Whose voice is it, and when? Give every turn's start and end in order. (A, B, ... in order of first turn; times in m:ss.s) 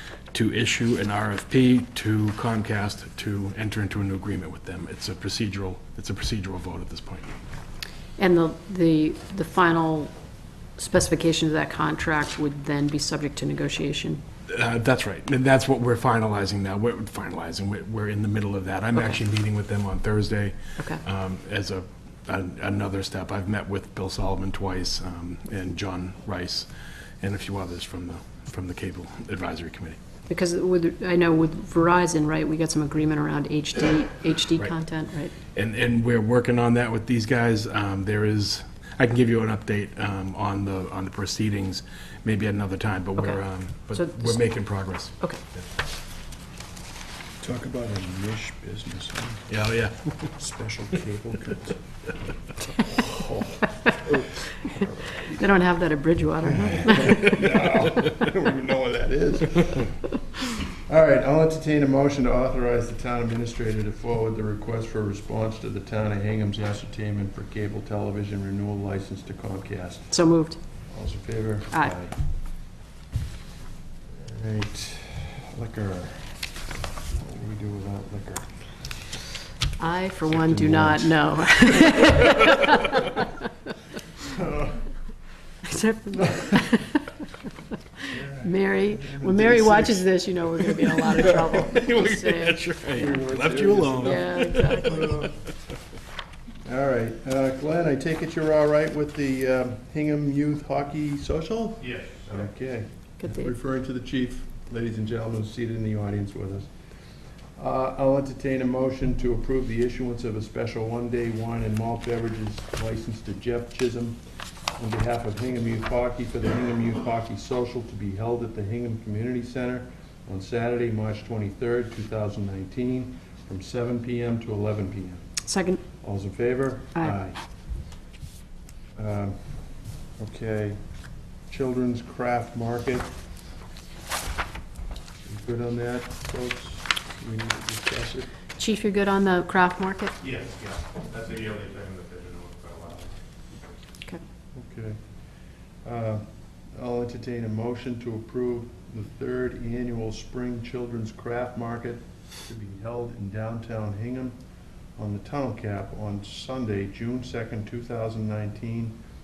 0:00.3-0:07.3 A
0:08.2-0:10.2 B
0:10.7-0:14.2 B
0:14.5-0:30.0 A
0:30.3-0:35.3 B
0:35.5-0:45.2 A
0:43.9-0:44.4 B
0:47.4-0:49.5 C
0:49.5-0:50.3 A
0:50.3-0:55.5 C
0:55.3-0:57.4 B
0:56.6-1:10.2 C
1:10.1-1:10.6 B
1:10.9-1:12.1 C
1:14.1-1:16.4 C
1:17.1-1:18.9 C
1:19.8-1:23.3 B
1:20.3-1:21.6 C
1:24.3-1:24.8 C
1:25.6-1:27.2 B
1:28.1-1:30.3 C
1:28.4-1:32.7 B
1:31.1-1:35.3 A
1:32.9-1:35.3 C
1:34.0-1:35.1 B
1:36.6-1:46.7 C
1:41.8-1:42.4 D
1:43.2-1:43.5 B
1:47.5-1:54.2 C
1:54.7-2:05.3 C
2:05.4-2:05.8 B
2:06.0-2:07.4 C
2:09.0-2:10.8 C
2:11.5-2:13.1 C
2:15.2-2:18.3 C
2:18.6-2:20.2 B
2:20.2-2:23.2 D
2:24.5-2:34.4 C
2:35.0-2:39.0 C